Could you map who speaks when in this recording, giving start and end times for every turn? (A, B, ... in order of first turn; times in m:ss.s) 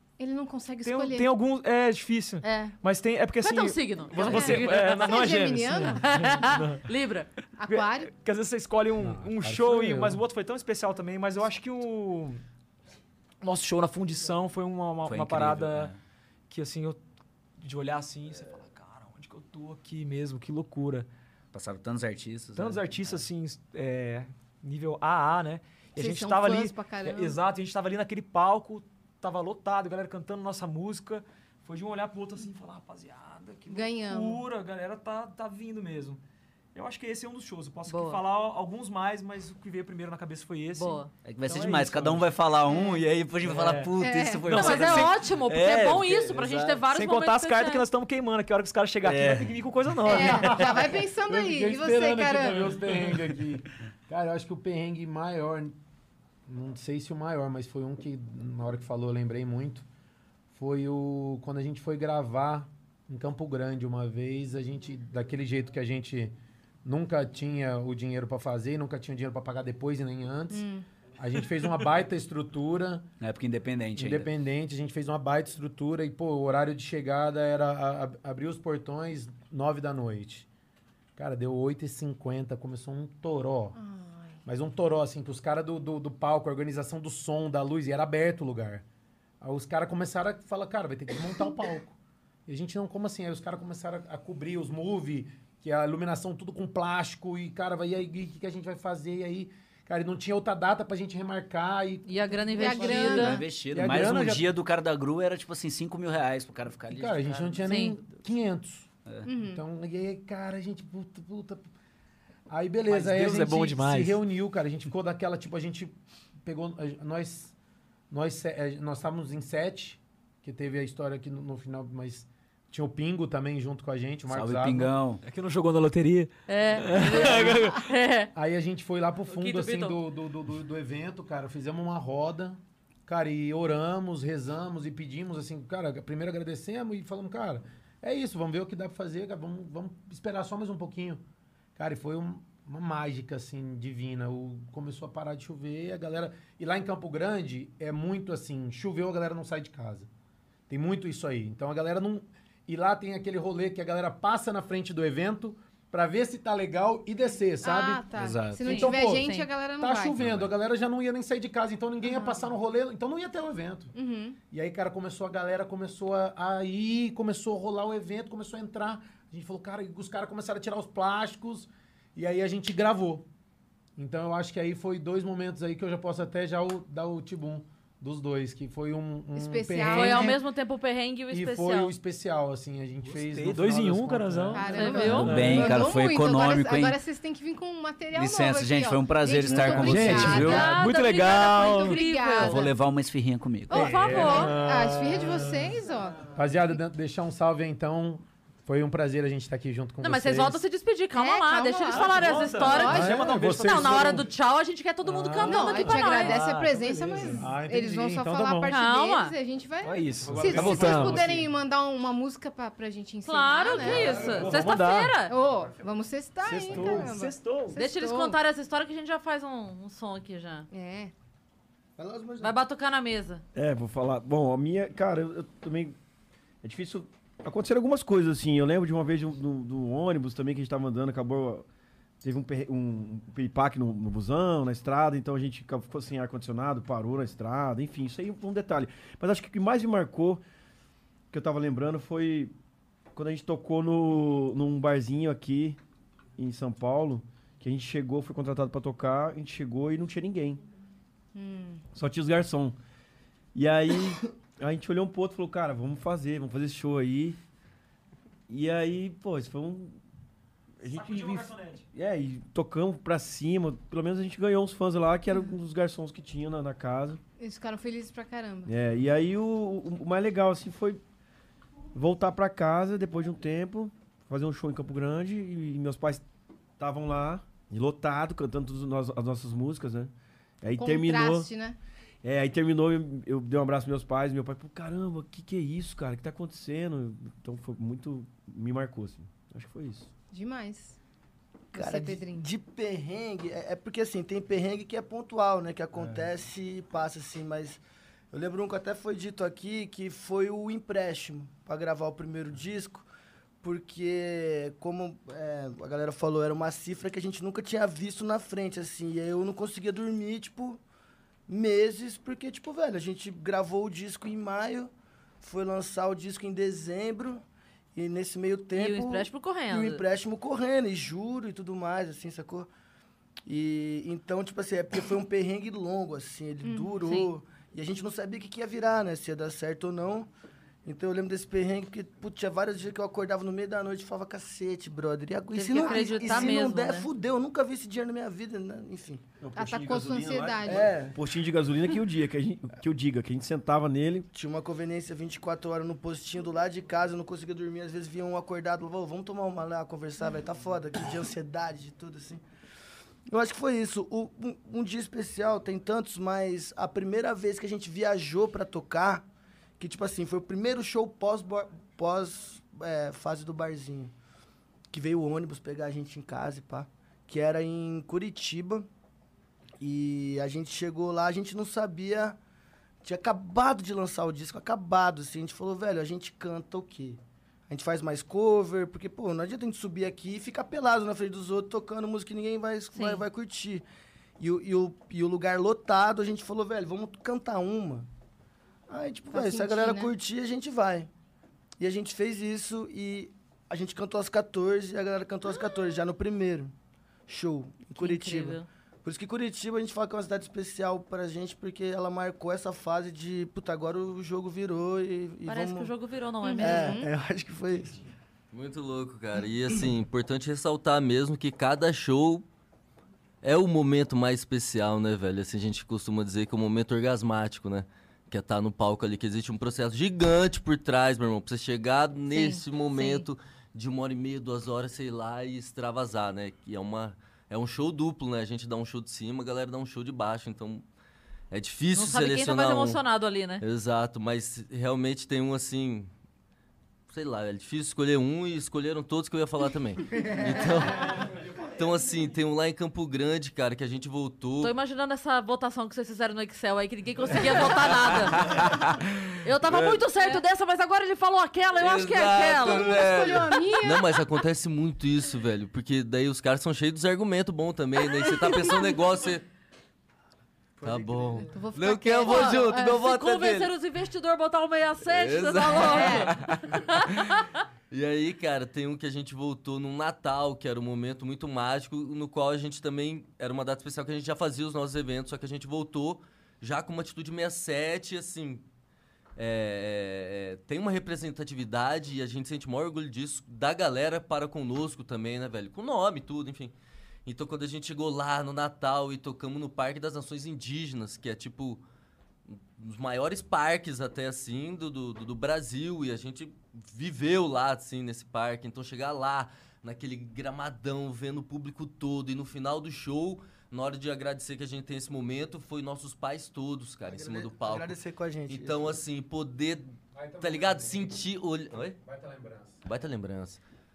0:00.2-0:01.3 A
0:00.8-0:06.9 B
0:02.4-0:02.8 C
0:03.4-0:07.3 C
0:04.2-0:06.4 A
0:07.6-0:08.1 A
0:07.6-0:12.4 B
0:09.0-0:10.2 D
0:13.4-0:15.9 B
0:15.0-0:16.0 E
0:16.5-0:17.0 B
0:17.6-0:21.1 B
0:21.5-0:23.2 E
0:22.6-0:36.2 B
0:26.0-0:27.4 A
0:33.7-0:34.4 A
0:36.7-0:42.3 B
0:37.9-0:38.2 C
0:40.8-0:41.1 C
0:41.2-0:46.8 E
0:42.7-0:43.0 A
0:43.4-0:43.9 B
0:44.0-0:44.7 A
0:44.4-0:45.9 B
0:44.5-0:47.9 C
0:46.9-0:50.8 B
0:49.0-0:49.6 E
0:50.0-0:52.9 A
0:50.2-0:55.8 D
0:56.5-0:59.9 D
1:00.5-1:10.6 D
1:10.5-1:10.8 A
1:11.2-1:13.1 D
1:13.2-1:14.3 E
1:14.0-1:20.5 D
1:21.2-1:23.8 D
1:23.8-1:24.4 A
1:24.5-1:28.8 D
1:29.4-1:32.0 D
1:32.5-1:44.6 D
1:42.0-1:43.4 C
1:42.6-1:43.5 A
1:43.1-1:47.7 E
1:46.9-1:51.7 D
1:47.7-1:48.0 C
1:49.2-1:49.6 A
1:52.5-1:57.5 D
1:52.9-1:54.2 B
1:58.1-2:05.0 D
2:04.3-2:05.2 E
2:05.2-2:07.8 B
2:06.5-2:08.3 C
2:08.3-2:21.2 D
2:09.3-2:10.0 C
2:21.8-2:30.1 D
2:30.7-2:43.9 D
2:37.6-2:40.3 A
2:38.2-2:38.7 E
2:38.6-2:39.5 C
2:40.2-2:40.5 E
2:42.0-2:42.6 A
2:44.0-2:44.4 A
2:44.5-2:53.3 D
2:54.0-3:00.4 D
2:59.3-3:00.4 A
2:59.9-3:02.0 C
3:01.3-3:05.5 D
3:03.1-3:05.8 B
3:04.5-3:12.7 A
3:04.7-3:05.6 C
3:05.2-3:07.0 E
3:08.1-3:10.8 E
3:09.6-3:12.7 C
3:09.9-3:12.0 B
3:12.4-3:13.9 E
3:13.7-3:14.5 C
3:13.7-3:15.7 D
3:13.7-3:16.3 A
3:16.3-3:20.6 D
3:20.0-3:26.4 C
3:21.2-3:23.3 A
3:21.9-3:24.2 B
3:22.9-3:24.3 D
3:25.0-3:26.1 D
3:25.4-3:34.6 A
3:25.9-3:27.4 B
3:27.3-3:28.8 D
3:28.7-3:29.4 C
3:29.8-3:31.3 B
3:30.2-3:31.4 D
3:30.3-3:31.2 F
3:33.2-3:35.4 C
3:33.8-3:34.7 D
3:34.2-3:35.2 B
3:35.3-3:38.4 A
3:36.4-3:37.8 B
3:37.8-3:40.7 C
3:40.7-3:41.1 A
3:42.0-3:42.6 G
3:42.4-3:43.4 C
3:43.6-3:46.0 F
3:46.6-3:51.7 F
3:52.2-4:00.4 F
4:01.3-4:02.5 F
4:03.2-4:05.8 F
4:06.4-4:10.6 F
4:11.3-4:11.8 A
4:11.9-4:12.8 F
4:13.5-4:17.4 F
4:18.5-4:20.0 F
4:20.8-4:27.2 F
4:20.8-4:21.8 B
4:27.4-4:28.7 A
4:28.7-4:31.0 F
4:31.9-4:36.2 F
4:36.8-4:40.1 F
4:40.6-4:41.5 F
4:40.8-4:41.8 A
4:42.2-4:50.1 F
4:50.3-4:51.0 A
4:51.7-4:57.8 G
4:51.7-4:52.5 A
4:56.0-4:56.2 F
4:58.3-5:03.1 G
5:03.6-5:10.8 G
5:11.5-5:17.4 G
5:18.0-5:22.7 G
5:18.8-5:20.0 C
5:23.5-5:30.3 G
5:26.6-5:27.1 A
5:27.0-5:27.3 C
5:30.8-5:39.2 G
5:35.5-5:37.1 C
5:35.8-5:36.6 A
5:39.4-5:44.3 F
5:39.6-5:40.9 A
5:40.7-5:41.2 G
5:44.3-5:52.4 G
5:53.3-5:59.2 G
5:59.8-6:04.1 G
6:04.9-6:08.9 G
6:09.8-6:12.4 G
6:13.0-6:23.8 G
6:22.9-6:23.2 C
6:24.4-6:28.1 G
6:28.9-6:31.1 G
6:29.3-6:30.1 A
6:31.8-6:36.7 G
6:37.3-6:45.9 G
6:38.0-6:38.7 C
6:45.5-6:47.1 C
6:46.4-6:47.1 A
6:46.6-6:48.0 G
6:48.5-6:52.4 H
6:53.4-7:10.8 H
7:02.3-7:03.2 A
7:11.5-7:13.0 H
7:12.0-7:13.6 C
7:13.6-7:16.1 H
7:17.1-7:21.3 H
7:21.8-7:24.7 H
7:24.6-7:28.6 C
7:28.3-7:28.7 H
7:29.4-7:33.0 C
7:29.7-7:30.0 H
7:31.8-7:39.4 H
7:32.6-7:34.3 A
7:38.0-7:38.9 A
7:40.8-7:41.6 G
7:40.8-7:43.7 H
7:41.5-7:43.0 A
7:42.2-7:47.5 C
7:45.0-7:47.3 H
7:45.7-7:46.5 A
7:47.9-7:58.6 H
7:59.4-8:06.7 H
8:07.3-8:11.8 H
8:12.5-8:27.9 H
8:27.1-8:29.0 G
8:28.5-8:32.0 H
8:30.1-8:31.2 D
8:32.0-8:32.8 D
8:32.8-8:33.6 H